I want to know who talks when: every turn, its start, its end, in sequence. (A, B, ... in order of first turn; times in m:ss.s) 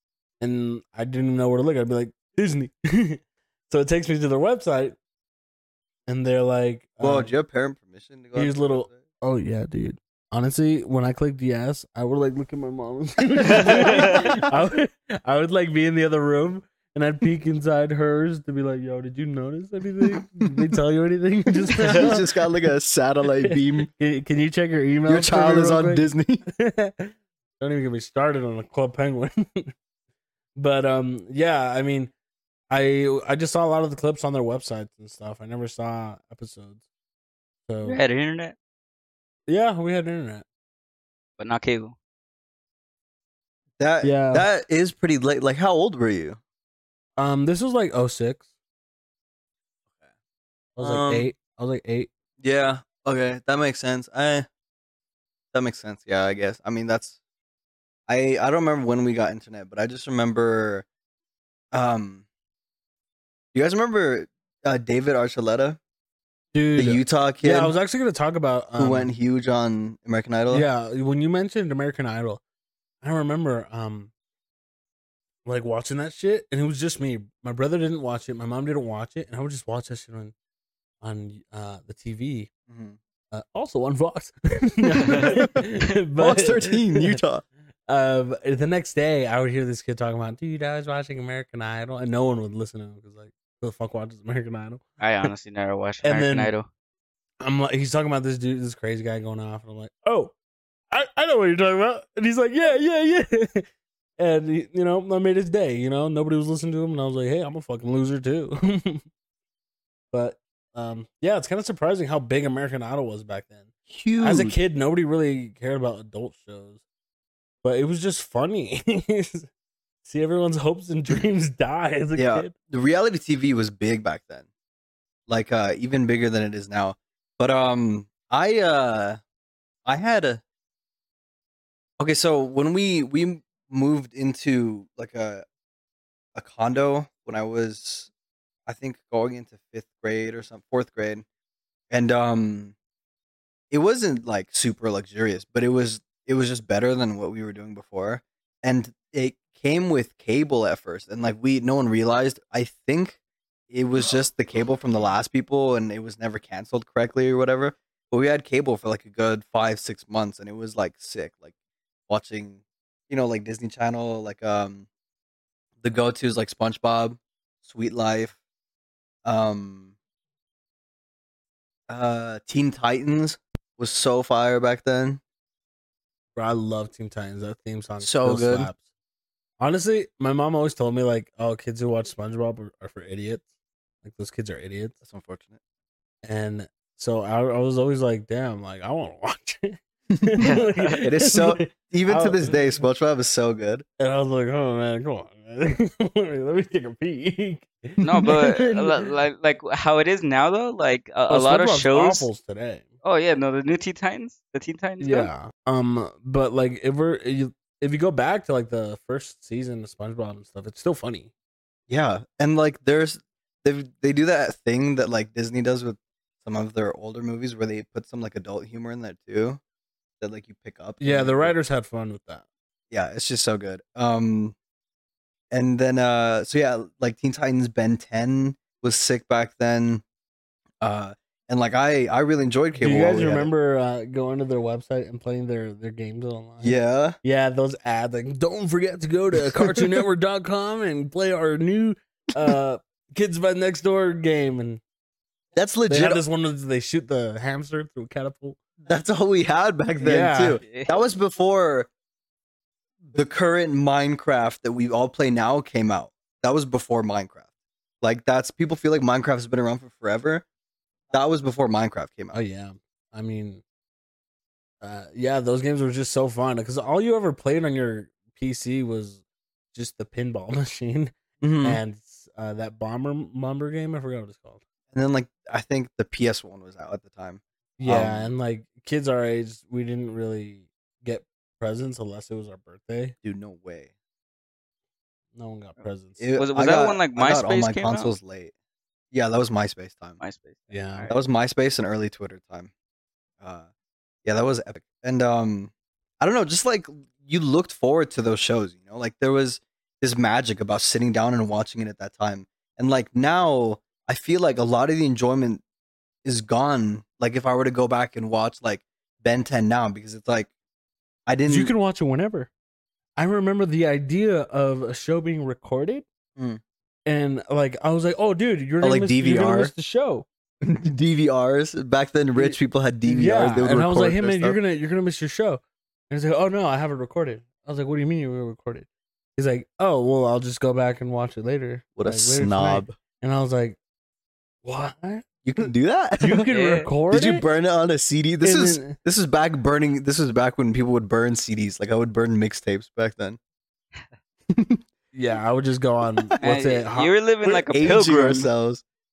0:00.4-0:05.0 A
0:06.1-0:07.3 A
0:07.0-0:09.0 B
0:08.3-0:22.6 A
0:13.3-0:14.3 B
0:13.6-0:14.2 C
0:20.1-0:20.7 B
0:21.7-0:23.9 B
0:23.4-0:29.7 A
0:25.1-0:26.4 B
0:30.6-0:32.1 A
0:32.7-0:36.8 A
0:37.7-0:38.0 A
0:37.8-0:38.5 C
0:39.5-0:40.4 A
0:41.4-0:41.9 C
0:43.8-0:46.4 B
0:44.0-0:44.5 A
0:47.2-0:48.5 A
0:50.8-0:52.1 A
0:50.8-0:51.3 B
0:52.4-0:54.5 B
0:55.5-0:57.2 B
0:58.1-1:00.8 B
1:01.7-1:02.2 B
1:03.5-1:05.8 B
1:06.5-1:09.1 A
1:06.7-1:07.7 B
1:08.8-1:10.6 B
1:10.5-1:12.4 A
1:13.0-1:14.1 A
1:15.4-1:20.3 A
1:21.0-1:22.5 A
1:22.7-1:23.0 B
1:23.3-1:27.2 A
1:25.2-1:25.6 B
1:26.2-1:27.4 B
1:27.9-1:35.3 A
1:35.0-1:36.7 C
1:36.0-1:36.5 A
1:37.4-1:40.3 A
1:40.9-1:43.6 A
1:44.2-1:49.0 A
1:50.1-1:53.7 A
1:53.9-1:54.5 B
1:54.2-1:56.8 A
1:57.6-1:59.5 A
2:00.0-2:02.5 A
2:02.2-2:04.5 B
2:05.3-2:09.2 B
2:09.8-2:10.4 B
2:12.0-2:15.4 B
2:16.3-2:18.1 B
2:18.7-2:21.2 B
2:21.9-2:22.7 B
2:23.7-2:33.2 B
2:33.7-2:41.5 B
2:42.1-2:44.9 B
2:45.8-2:48.4 B
2:49.2-2:49.9 B
2:51.9-2:55.2 B
2:56.4-2:58.8 A
2:58.0-2:58.7 B
2:59.6-3:03.4 A
3:04.0-3:05.0 A
3:05.0-3:05.6 B
3:06.2-3:12.6 A
3:10.4-3:11.0 C
3:11.0-3:13.8 B
3:14.0-3:19.1 A
3:18.0-3:22.3 C
3:21.3-3:22.8 A
3:23.0-3:25.3 C
3:25.0-3:31.3 A
3:31.9-3:39.6 B
3:40.2-3:41.5 B
3:41.0-3:42.4 A
3:42.9-3:44.5 B
3:45.5-3:50.0 B
3:50.8-3:53.5 B
3:52.8-4:04.8 A
3:56.6-3:57.2 B
3:59.4-3:59.9 B
4:05.6-4:06.2 B
4:05.9-4:08.6 A
4:08.8-4:11.9 B
4:10.0-4:10.6 A
4:10.6-4:11.0 C
4:13.1-4:17.4 B
4:18.0-4:20.4 B
4:21.1-4:22.4 B
4:22.3-4:23.6 A
4:24.8-4:29.2 A
4:29.7-4:34.6 A
4:31.4-4:31.8 B
4:34.9-4:38.3 B
4:37.8-4:43.1 A
4:43.2-4:43.9 B
4:45.3-4:46.2 A
4:46.2-4:48.5 B
4:46.4-4:48.1 C
4:49.1-4:50.2 B
4:50.2-4:51.2 C
4:50.7-4:51.1 A
4:51.1-4:52.7 B
4:53.4-4:53.7 B
4:54.2-5:05.6 B
5:06.2-5:10.5 B
5:11.3-5:11.7 B
5:11.5-5:12.5 A
5:13.2-5:16.0 A
5:16.4-5:16.6 B
5:17.0-5:20.2 A
5:18.8-5:19.7 B
5:20.6-5:24.6 B
5:22.4-5:33.8 A
5:32.0-5:32.9 B
5:34.6-5:35.6 A
5:35.4-5:36.4 B
5:36.2-5:37.5 A
5:36.5-5:36.9 C
5:37.1-5:43.4 B
5:38.4-5:39.0 A
5:44.5-5:44.8 B
5:45.1-5:47.6 A
5:46.4-5:48.5 C
5:47.7-5:48.8 B